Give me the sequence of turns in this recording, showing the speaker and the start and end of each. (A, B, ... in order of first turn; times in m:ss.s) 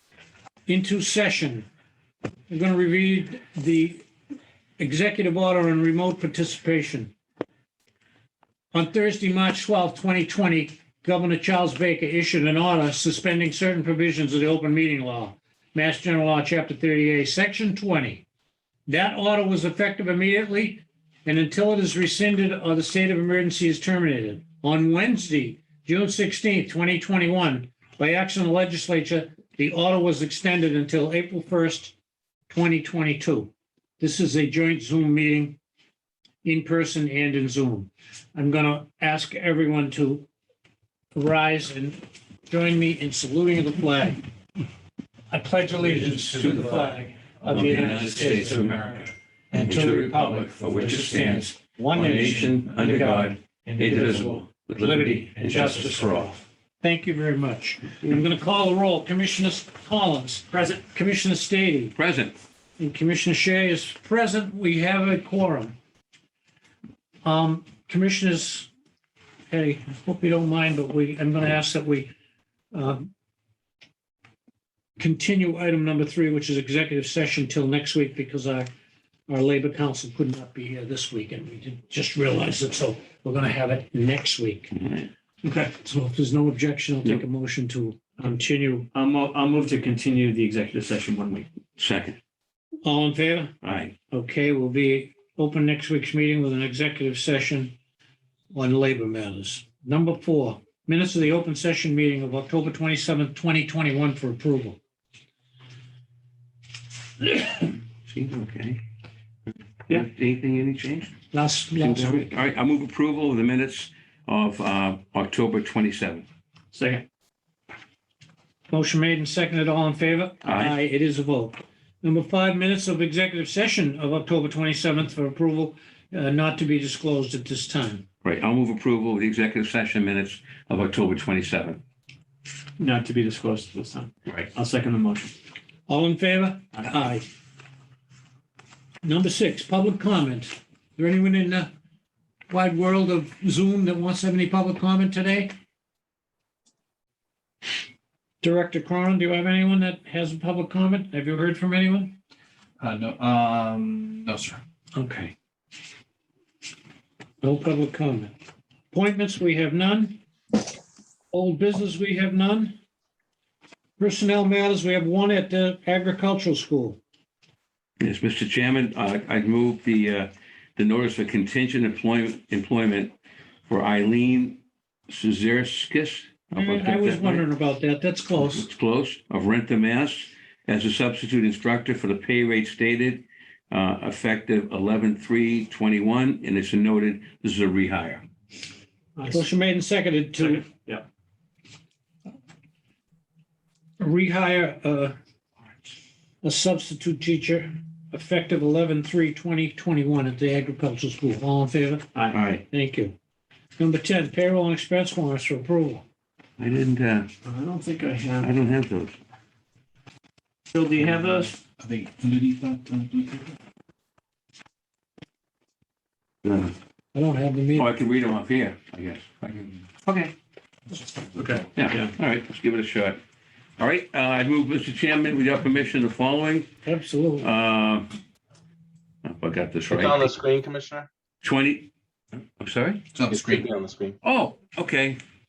0:00.7-0:01.6 A
0:02.5-0:04.0 A
0:04.8-0:07.1 A
0:08.7-0:18.2 A
0:18.9-0:31.9 A
0:32.5-0:35.6 A
0:36.4-0:40.3 A
0:41.1-0:44.2 A
0:45.3-1:01.9 A
0:46.0-0:56.3 B
1:00.5-1:00.8 C
1:02.0-1:02.3 B
1:02.8-1:05.8 A
1:07.2-1:08.7 A
1:09.5-1:12.1 A
1:12.7-1:13.1 A
1:15.0-1:18.7 A
1:19.3-1:24.7 A
1:24.7-1:25.1 B
1:25.4-1:25.7 C
1:25.8-1:28.9 A
1:28.9-1:31.5 C
1:31.8-1:32.2 B
1:32.8-1:33.5 A
1:33.6-1:33.9 B
1:34.1-1:37.7 A
1:38.5-1:44.8 A
1:47.5-1:48.8 B
1:49.9-1:51.1 B
1:51.3-1:52.2 A
1:51.8-1:56.2 B
1:56.7-1:57.0 C
1:58.7-2:08.0 A
2:00.4-2:00.8 B
2:08.2-2:11.8 B
2:12.8-2:15.3 C
2:15.9-2:17.2 A
2:19.0-2:21.7 A
2:22.5-2:25.5 A
2:28.4-2:32.2 A
2:32.8-2:34.6 D
2:34.9-2:35.3 A
2:37.4-2:38.3 A
2:38.9-2:40.2 A
2:41.3-2:42.8 A
2:44.0-2:47.0 A
2:48.0-2:53.1 B
2:53.7-2:57.4 B
2:56.5-2:58.7 A
2:58.4-3:08.2 B
3:09.2-3:09.4 C
3:09.3-3:10.6 A
3:10.4-3:11.0 C
3:14.0-3:15.1 A
3:16.4-3:22.1 A
3:22.3-3:22.6 B
3:22.7-3:23.1 A
3:23.8-3:26.0 A
3:26.6-3:27.3 B
3:27.4-3:28.5 C
3:28.4-3:29.2 B
3:30.7-3:31.5 C
3:31.7-3:33.5 D
3:36.4-3:36.7 B
3:37.1-3:37.9 A
3:37.8-3:39.8 B
3:41.3-3:42.1 C
3:41.8-3:43.2 B
3:43.8-3:46.7 B
3:46.8-3:47.5 A
3:47.4-3:48.1 B
3:49.2-3:50.3 B
3:49.9-3:51.1 E
3:51.4-3:51.9 B
3:52.6-3:53.0 B
3:53.1-3:53.7 D
3:53.3-3:54.2 E
3:54.2-3:55.2 B